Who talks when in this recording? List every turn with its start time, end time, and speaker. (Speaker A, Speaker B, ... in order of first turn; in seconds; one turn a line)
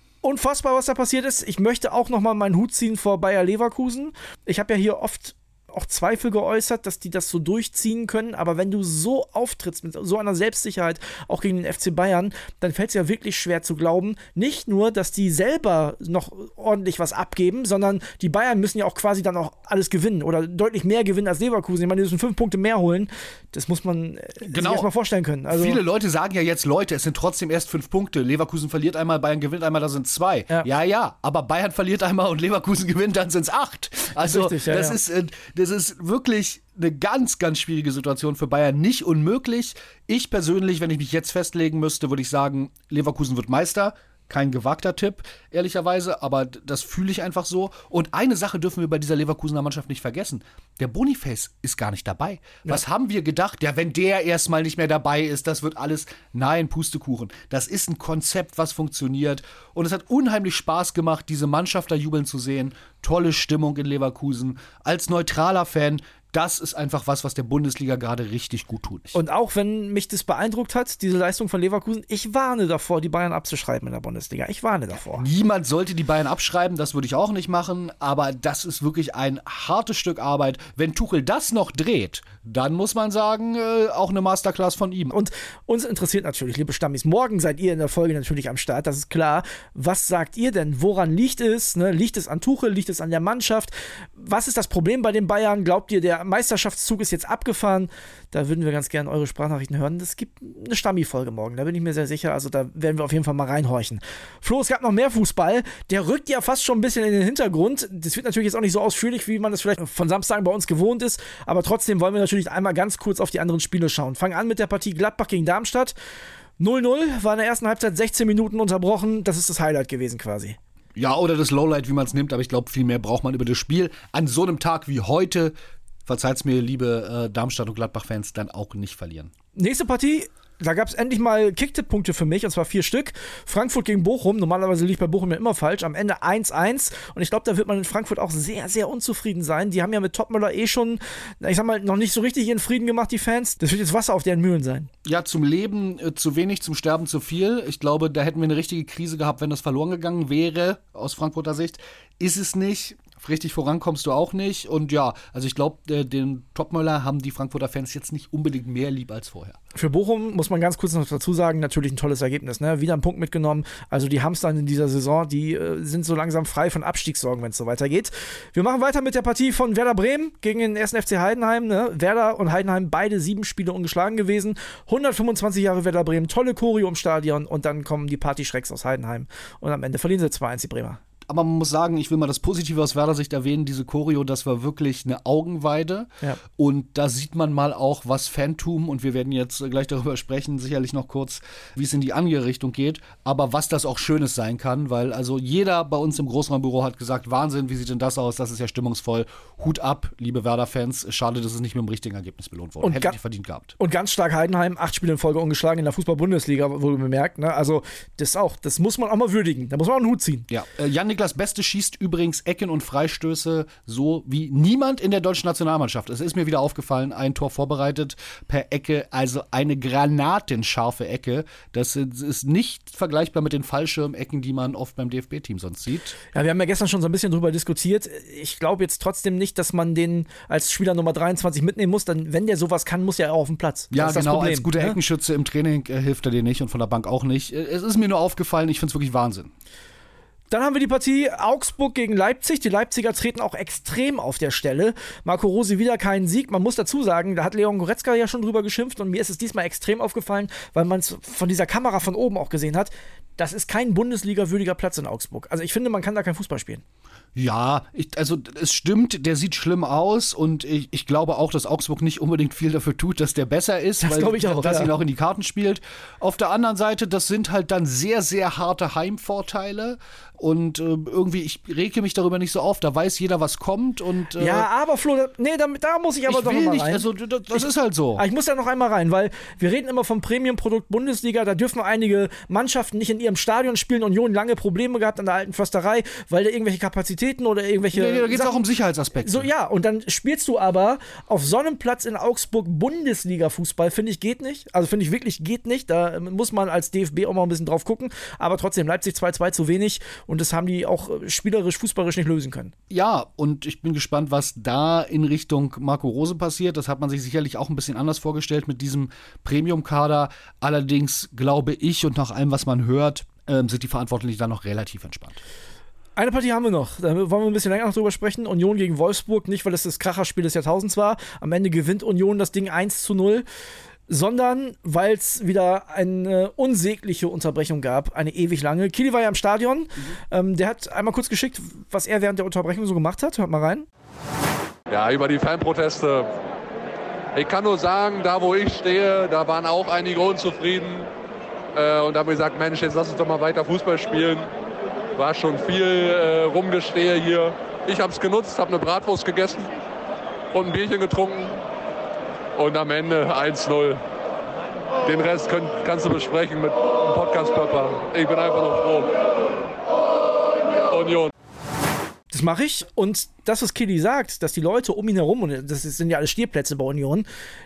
Speaker A: 0.2-25.8
Speaker B: 24.4-24.9
Speaker B: 25.5-69.2
Speaker A: 34.2-35.0
Speaker A: 69.1-75.3
Speaker B: 75.1-85.1
Speaker A: 85.1-116.0
Speaker A: 116.6-120.6
Speaker B: 121.0-129.3
Speaker A: 129.6-144.9
Speaker B: 145.1-159.6
Speaker A: 159.8-181.0
Speaker B: 181.3-203.8
Speaker A: 202.8-203.2
Speaker A: 203.8-210.5
Speaker B: 210.5-226.2
Speaker A: 226.3-235.0
Speaker B: 233.9-239.5
Speaker A: 240.5-256.8
Speaker B: 257.4-274.7
Speaker A: 264.0-264.9
Speaker A: 274.4-277.6
Speaker B: 276.3-278.2
Speaker A: 278.2-288.6
Speaker B: 287.9-289.5
Speaker A: 289.2-302.7
Speaker B: 302.9-315.4
Speaker A: 316.2-323.5
Speaker A: 324.1-333.9
Speaker C: 334.9-336.3
Speaker C: 337.3-341.1
Speaker C: 341.7-344.5
Speaker C: 345.2-349.7
Speaker C: 350.5-351.6
Speaker C: 352.6-354.0
Speaker C: 355.0-359.1
Speaker C: 360.8-361.3
Speaker A: 362.3-367.3